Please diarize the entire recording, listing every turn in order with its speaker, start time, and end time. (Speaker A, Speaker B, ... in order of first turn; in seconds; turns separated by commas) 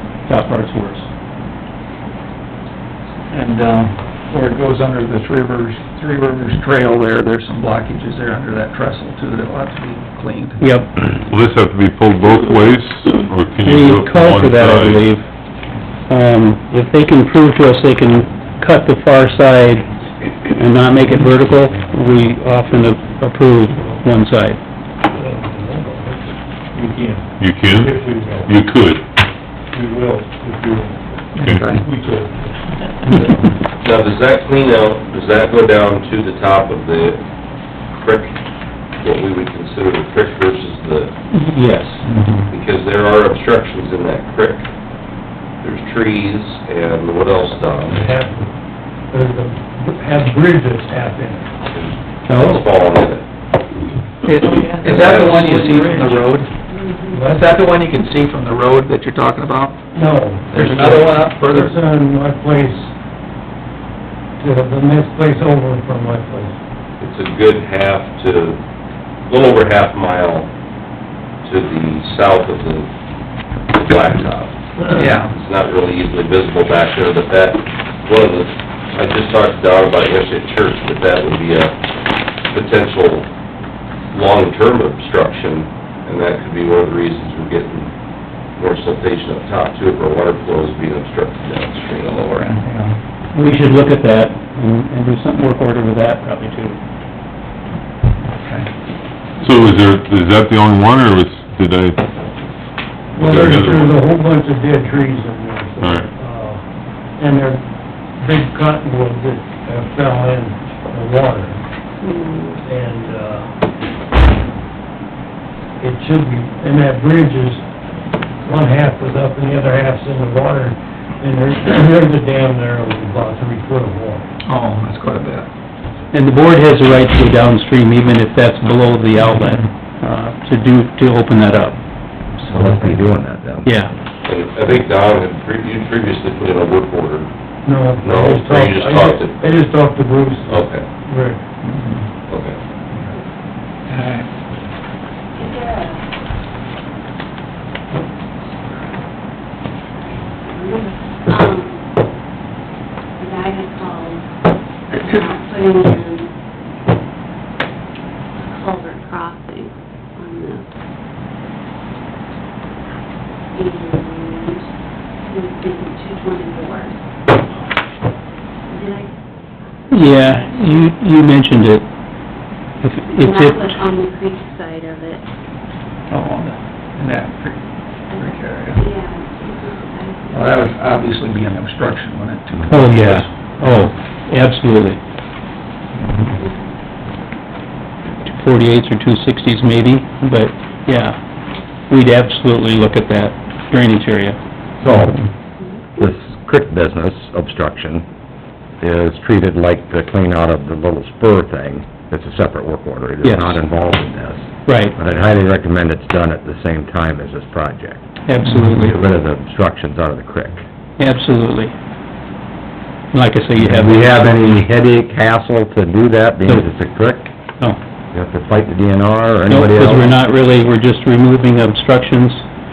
Speaker A: 0.3-1.1, Speaker B: 3.3-10.6, Speaker A: 10.6-10.9, Speaker C: 11.1-15.0, Speaker A: 13.6-15.2, Speaker A: 16.1-24.6, Speaker D: 25.1-26.2, Speaker D: 26.8-27.2, Speaker C: 27.4-29.0, Speaker D: 27.7-28.4, Speaker D: 29.7-30.9, Speaker B: 31.4-31.8, Speaker C: 31.4-31.8, Speaker D: 31.8-32.4, Speaker E: 33.8-37.2, Speaker E: 38.0-38.3, Speaker E: 39.0-41.1, Speaker A: 41.3-42.1, Speaker E: 42.5-44.7, Speaker E: 45.6-48.1, Speaker D: 47.9-48.5, Speaker D: 49.1-51.6, Speaker E: 51.6-53.2, Speaker A: 52.3-52.6, Speaker B: 54.2-56.5, Speaker F: 56.7-57.2, Speaker D: 57.1-57.4, Speaker B: 57.2-59.8, Speaker D: 59.9-62.9, Speaker B: 60.5-61.8, Speaker D: 64.4-66.5, Speaker E: 67.0-68.6, Speaker E: 69.3-70.5, Speaker E: 71.4-72.9, Speaker E: 73.7-81.7, Speaker B: 74.9-75.3, Speaker E: 82.5-83.3, Speaker E: 84.1-87.9, Speaker E: 88.6-92.1, Speaker B: 91.9-93.0, Speaker A: 93.3-96.8, Speaker B: 98.4-98.7, Speaker C: 99.4-102.1, Speaker C: 103.2-104.0, Speaker D: 103.2-106.6, Speaker C: 105.8-106.1, Speaker D: 107.2-107.7, Speaker D: 108.2-111.6, Speaker F: 112.0-112.6, Speaker D: 112.6-113.5, Speaker D: 115.8-117.6, Speaker D: 118.4-124.2, Speaker B: 124.4-125.5, Speaker A: 126.1-131.8, Speaker B: 132.5-132.9, Speaker G: 132.5-133.7, Speaker A: 133.6-133.9, Speaker E: 134.2-137.3, Speaker D: 137.6-141.4, Speaker E: 138.0-139.4, Speaker E: 140.5-140.8, Speaker B: 141.7-142.0, Speaker E: 142.3-142.6, Speaker B: 143.9-144.2, Speaker F: 145.4-146.0, Speaker F: 150.0-151.8, Speaker F: 153.2-154.2, Speaker F: 154.9-156.3, Speaker F: 158.4-160.7, Speaker F: 163.5-164.6, Speaker F: 165.3-166.9, Speaker F: 168.7-169.1, Speaker A: 169.9-171.9, Speaker F: 170.1-170.4, Speaker A: 172.8-173.8, Speaker F: 173.2-175.2, Speaker B: 176.1-177.6, Speaker F: 178.1-180.8, Speaker B: 178.1-178.8, Speaker B: 180.3-183.9, Speaker A: 182.7-185.0, Speaker B: 186.0-186.3, Speaker F: 186.4-186.7, Speaker A: 188.2-191.2, Speaker A: 191.9-194.4, Speaker G: 194.8-195.2, Speaker F: 195.6-195.9, Speaker G: 195.9-198.0, Speaker G: 198.8-208.0, Speaker A: 203.2-203.6, Speaker A: 204.7-204.9, Speaker A: 208.2-208.9, Speaker B: 208.4-208.8, Speaker G: 208.7-210.6, Speaker A: 211.0-211.7, Speaker A: 213.1-214.2, Speaker G: 213.6-217.3, Speaker G: 218.1-220.2, Speaker A: 219.5-222.4